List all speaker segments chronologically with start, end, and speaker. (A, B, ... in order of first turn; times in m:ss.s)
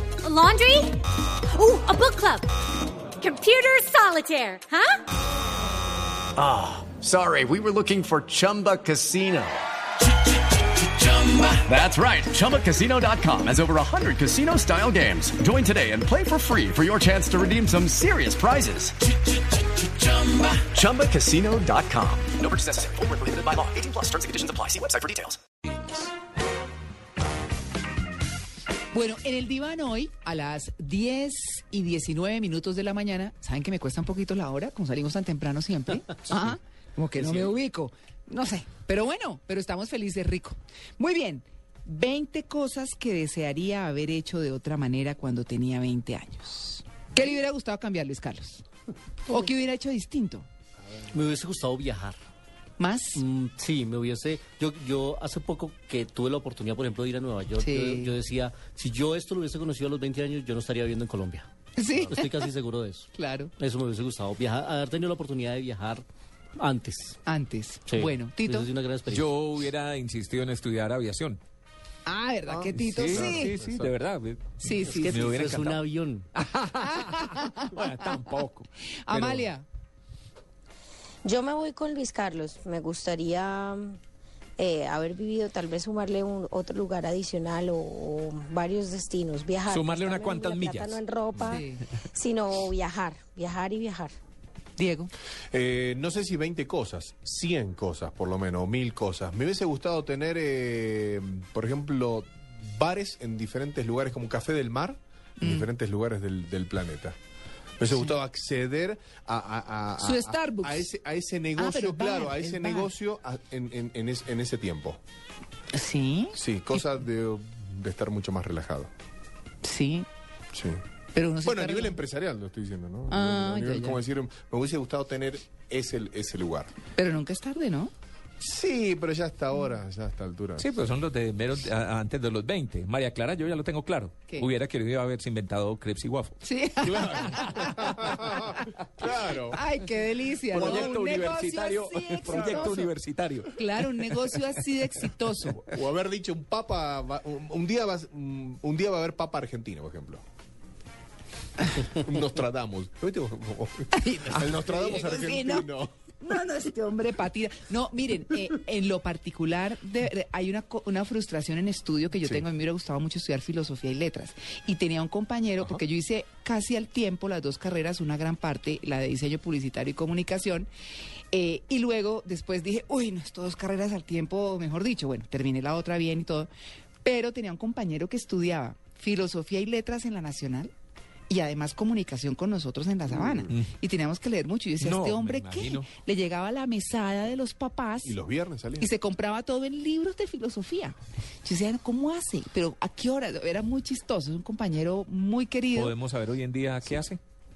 0:00.2-0:00.9 A
0:01.6-0:02.4 A
0:03.2-0:04.9 A
0:06.4-0:09.6 B
0:10.8-0:19.0 B
0:20.0-0:25.4 B
0:28.9-0:48.6 C
0:49.3-0:50.5 C
0:51.0-0:52.2 D
0:52.8-0:53.2 C
0:53.1-1:06.0 D
0:57.6-0:58.2 C
1:01.8-1:02.5 C
1:03.1-1:03.5 C
1:06.6-1:07.2 D
1:07.2-1:08.7 C
1:07.9-1:09.3 D
1:09.1-1:11.4 E
1:12.1-1:13.6 C
1:12.5-1:13.9 F
1:12.9-1:15.8 E
1:14.6-1:15.4 C
1:14.9-1:16.3 D
1:16.4-1:19.5 E
1:16.7-1:18.0 C
1:19.0-1:19.6 C
1:21.2-1:24.0 G
1:24.6-1:34.1 G
1:29.7-1:31.6 E
1:31.4-1:31.8 C
1:34.8-1:35.1 C
1:35.5-1:47.2 F
1:45.4-1:45.7 C
1:47.8-1:55.0 F
1:50.0-1:50.9 C
1:51.6-1:52.9 C
1:55.7-1:56.4 C
1:56.3-1:58.9 F
1:59.6-2:00.1 C
2:00.5-2:00.8 F
2:01.1-2:02.0 C
2:01.4-2:06.7 F
2:03.1-2:04.0 C
2:07.0-2:07.9 C
2:08.4-2:10.7 F
2:10.6-2:16.4 E
2:16.4-2:18.5 C
2:16.8-2:19.6 F
2:17.4-2:17.7 E
2:19.5-2:22.9 C
2:20.5-2:21.0 F
2:20.5-2:24.1 E
2:22.3-2:22.7 F
2:23.6-2:25.7 C
2:25.7-2:30.2 F
2:31.8-2:35.9 F
2:33.9-2:50.7 C
2:51.3-2:56.5 C
2:57.0-3:00.7 C
3:01.3-3:08.2 C
3:03.2-3:03.5 F
3:04.8-3:05.9 E
3:08.0-3:08.9 F
3:08.8-3:16.0 C
3:15.7-3:17.2 E